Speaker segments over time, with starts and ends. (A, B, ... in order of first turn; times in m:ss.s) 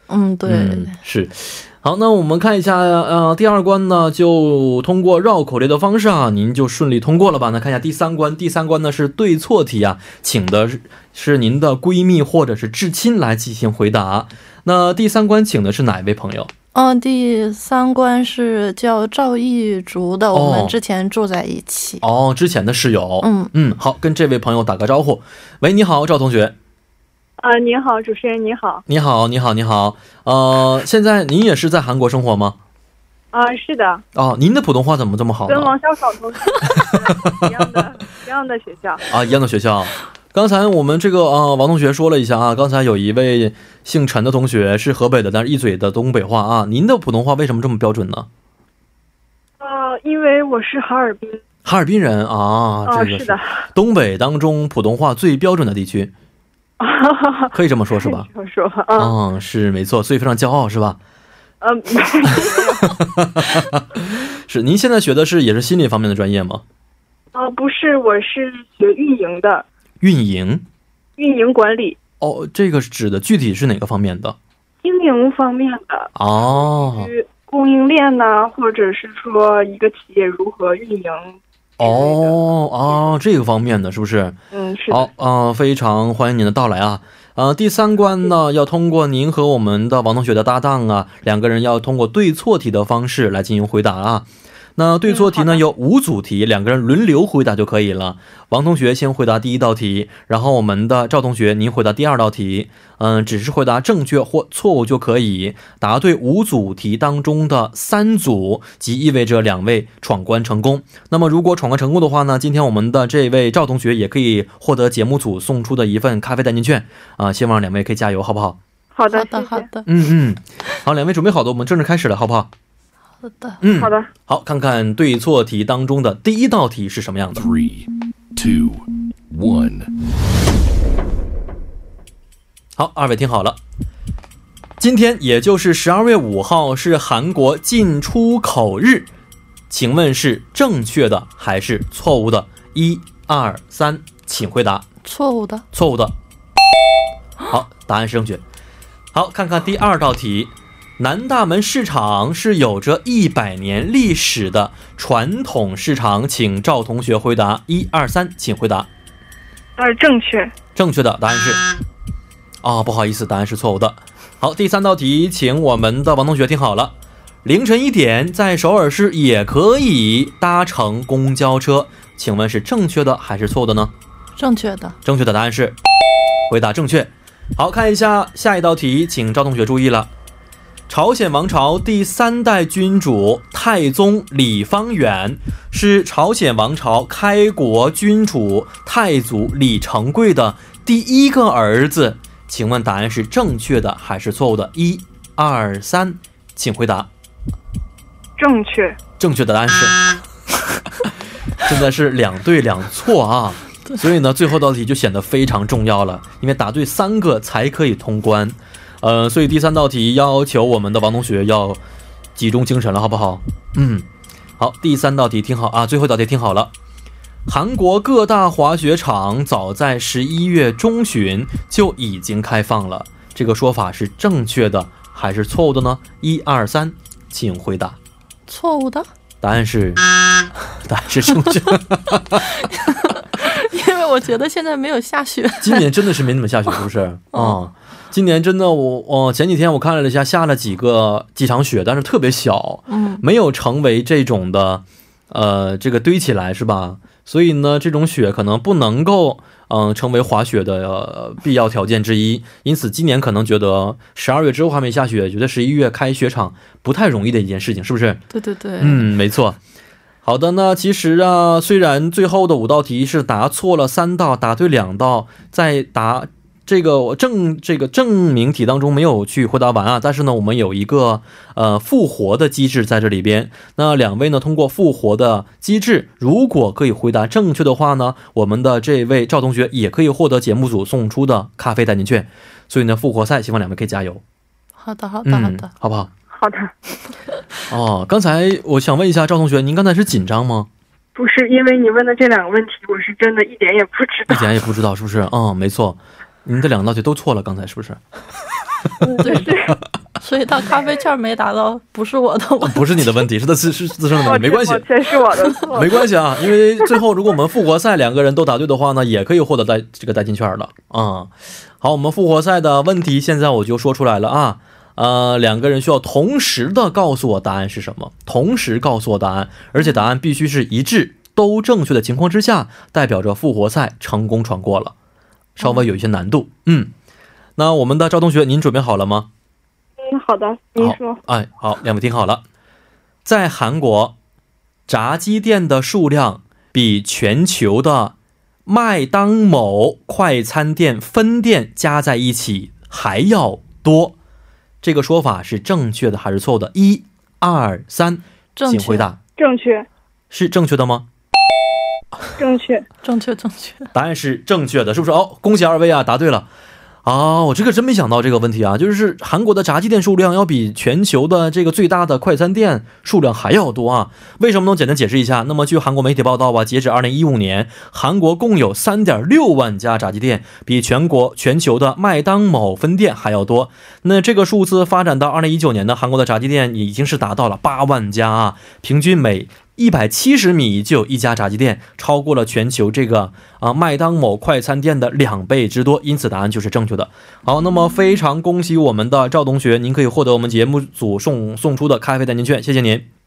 0:00.1-0:00.9 A
0:00.4-0:16.5 B
0:16.7-0:22.0 A
0:20.3-0:20.8 B
0:22.0-0:26.5 B
0:23.2-0:23.5 A
0:27.4-0:28.8 C
0:28.9-0:32.6 B
0:33.3-0:34.0 C
0:34.1-0:35.7 B
0:35.5-0:39.0 C
0:39.1-0:48.3 B
0:49.6-0:51.4 C
0:51.6-0:56.1 B
0:52.8-0:53.6 C
0:56.8-0:59.2 C
0:57.5-0:58.3 B
0:58.9-1:01.0 B
1:01.6-1:03.0 C
1:02.3-1:06.6 B
1:07.3-1:09.6 C
1:10.0-1:10.6 B
1:11.2-1:12.0 C
1:12.2-1:14.4 B
1:14.8-1:22.4 C
1:16.1-1:17.1 B
1:21.8-1:24.4 B
1:24.5-1:25.1 C
1:24.9-1:58.6 B
1:35.1-1:35.6 C
1:58.9-1:59.7 C
1:59.1-1:59.9 A
1:59.8-2:02.5 B
2:03.2-2:03.6 A
2:03.6-2:07.5 B
2:03.8-2:04.1 C
2:07.4-2:09.9 D
2:12.8-2:13.6 B
2:14.8-2:19.1 B
2:19.7-2:24.8 B
2:25.0-2:25.6 A
2:25.7-2:26.2 B
2:27.5-2:28.4 B
2:29.1-2:38.9 B
2:39.8-2:40.5 C
2:40.8-2:41.6 B
2:42.6-2:53.9 B
2:54.4-2:55.0 A
2:55.0-2:55.8 B
2:56.5-3:00.1 B
3:00.9-3:17.1 B
3:18.4-3:19.0 C
3:19.2-3:20.0 B
3:21.6-3:31.8 B
3:32.3-3:34.1 B
3:34.6-3:36.7 B
3:37.4-3:48.0 B
3:48.5-3:49.1 A
3:49.4-3:50.0 B
3:50.8-3:52.4 B
3:52.5-3:55.9 A
3:55.6-4:18.2 B
3:57.3-3:57.6 A
4:02.9-4:03.2 A
4:18.3-4:19.1 A
4:18.8-4:19.6 B
4:20.2-4:44.2 B
4:44.8-4:45.7 A
4:45.2-4:46.1 B
4:46.3-4:46.7 C
4:47.7-4:50.7 B
4:51.1-4:54.5 C
4:54.3-4:58.0 B
4:59.0-4:59.8 C
4:59.2-4:59.5 A
5:00.2-5:03.1 A
5:02.6-5:04.9 B
5:04.2-5:06.0 C
5:05.6-5:24.9 B
5:25.6-5:26.9 B
5:27.6-5:29.3 B
5:30.0-5:31.2 C
5:30.8-5:32.4 B
5:33.2-5:34.2 B
5:34.9-5:38.1 B
5:38.6-5:44.1 B
5:44.8-5:49.2 B
5:48.6-5:49.1 A
5:49.4-5:49.8 C
5:50.3-5:51.0 B
5:52.4-5:52.9 C
5:53.0-5:53.9 A
5:53.9-5:56.5 B
5:57.0-6:33.0 B